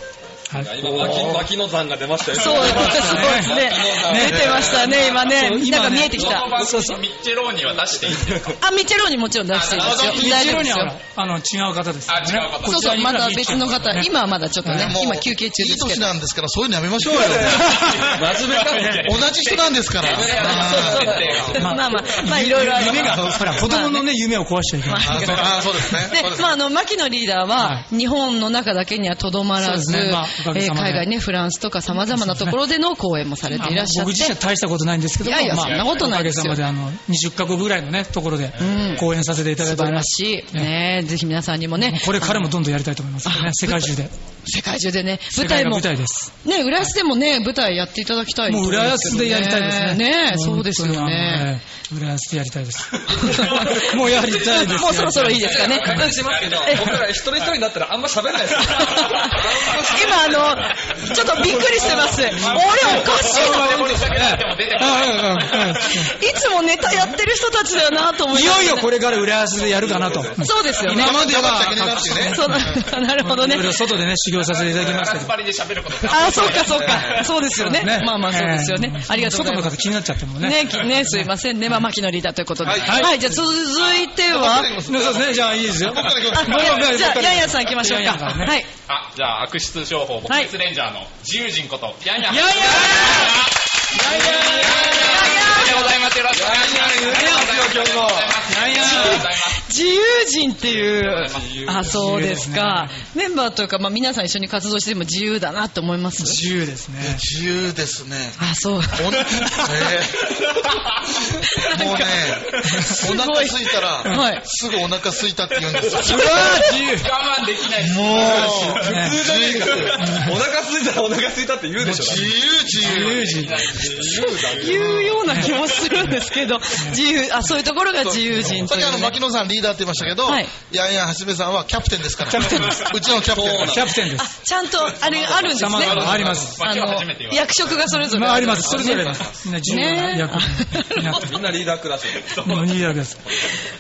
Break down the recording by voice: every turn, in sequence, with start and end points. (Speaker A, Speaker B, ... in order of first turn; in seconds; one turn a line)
Speaker A: 0.4-5.2
Speaker B: 0.5-1.4
Speaker C: 2.3-6.6
Speaker B: 2.5-7.0
Speaker D: 4.3-4.5
Speaker E: 6.1-8.6
Speaker A: 6.2-7.0
Speaker A: 8.0-8.6
Speaker C: 8.6-11.0
Speaker E: 9.5-10.1
Speaker D: 9.8-10.3
Speaker A: 9.8-10.5
Speaker B: 9.9-14.1
Speaker E: 12.1-13.0
Speaker C: 12.6-16.1
Speaker B: 14.6-14.9
Speaker D: 14.7-17.9
Speaker A: 17.0-19.3
Speaker B: 17.3-18.1
Speaker E: 17.5-22.1
Speaker D: 18.9-21.5
Speaker A: 20.0-21.8
Speaker C: 20.6-24.1
Speaker B: 21.6-25.3
Speaker D: 22.9-23.5
Speaker C: 24.8-34.4
Speaker D: 25.0-26.6
Speaker B: 27.6-27.9
Speaker B: 29.6-31.1
Speaker B: 32.0-32.6
Speaker B: 33.5-40.7
Speaker C: 35.2-36.6
Speaker E: 35.6-36.0
Speaker C: 38.5-39.1
Speaker E: 38.6-39.0
Speaker C: 39.6-42.5
Speaker B: 41.8-44.1
Speaker C: 43.2-43.9
Speaker C: 44.5-45.9
Speaker B: 45.3-46.3
Speaker C: 46.4-51.5
Speaker B: 48.5-56.0
Speaker C: 53.1-56.9
Speaker A: 53.2-60.7
Speaker E: 55.3-57.0
Speaker C: 58.6-63.9
Speaker A: 61.3-63.3
Speaker E: 61.5-66.1
Speaker B: 62.4-66.1
Speaker C: 66.1-68.9
Speaker B: 68.3-75.3
Speaker A: 69.6-70.5
Speaker C: 70.4-71.2
Speaker D: 70.9-72.5
Speaker C: 72.1-73.8
Speaker E: 74.4-77.4
Speaker C: 76.1-84.7
Speaker D: 76.7-77.3
Speaker B: 77.5-81.3
Speaker D: 82.6-83.1
Speaker B: 82.8-83.4
Speaker D: 84.2-86.8
Speaker B: 84.8-88.6
Speaker C: 86.3-88.7
Speaker E: 88.9-99.6
Speaker C: 90.3-90.5
Speaker B: 92.2-95.5
Speaker C: 92.7-93.4
Speaker A: 94.2-95.1
Speaker C: 95.0-96.0
Speaker A: 96.3-98.5
Speaker B: 97.1-97.6
Speaker B: 98.5-99.3
Speaker C: 98.7-106.4
Speaker E: 101.0-101.6
Speaker A: 101.1-102.0
Speaker B: 101.7-102.9
Speaker B: 106.2-107.2
Speaker D: 107.0-108.4
Speaker C: 108.4-109.3
Speaker D: 108.9-110.5
Speaker C: 111.4-114.4
Speaker D: 111.6-116.4
Speaker C: 116.0-117.0
Speaker B: 116.0-117.1
Speaker E: 116.8-119.1
Speaker D: 117.8-120.0
Speaker A: 118.2-122.3
Speaker B: 118.8-119.2
Speaker B: 120.0-120.3
Speaker D: 121.8-123.4
Speaker B: 122.8-123.6
Speaker E: 122.8-124.8
Speaker A: 123.4-125.5
Speaker C: 124.0-129.2
Speaker B: 125.2-125.5
Speaker E: 125.3-125.9
Speaker D: 128.0-133.8
Speaker C: 130.2-130.5
Speaker B: 132.3-132.9
Speaker A: 133.2-134.0
Speaker B: 133.7-134.3
Speaker C: 134.1-141.3
Speaker E: 134.9-137.8
Speaker B: 135.5-136.5
Speaker B: 138.0-141.3
Speaker E: 138.6-139.8
Speaker A: 141.2-142.6
Speaker E: 142.2-142.9
Speaker B: 142.4-143.2
Speaker A: 143.3-143.6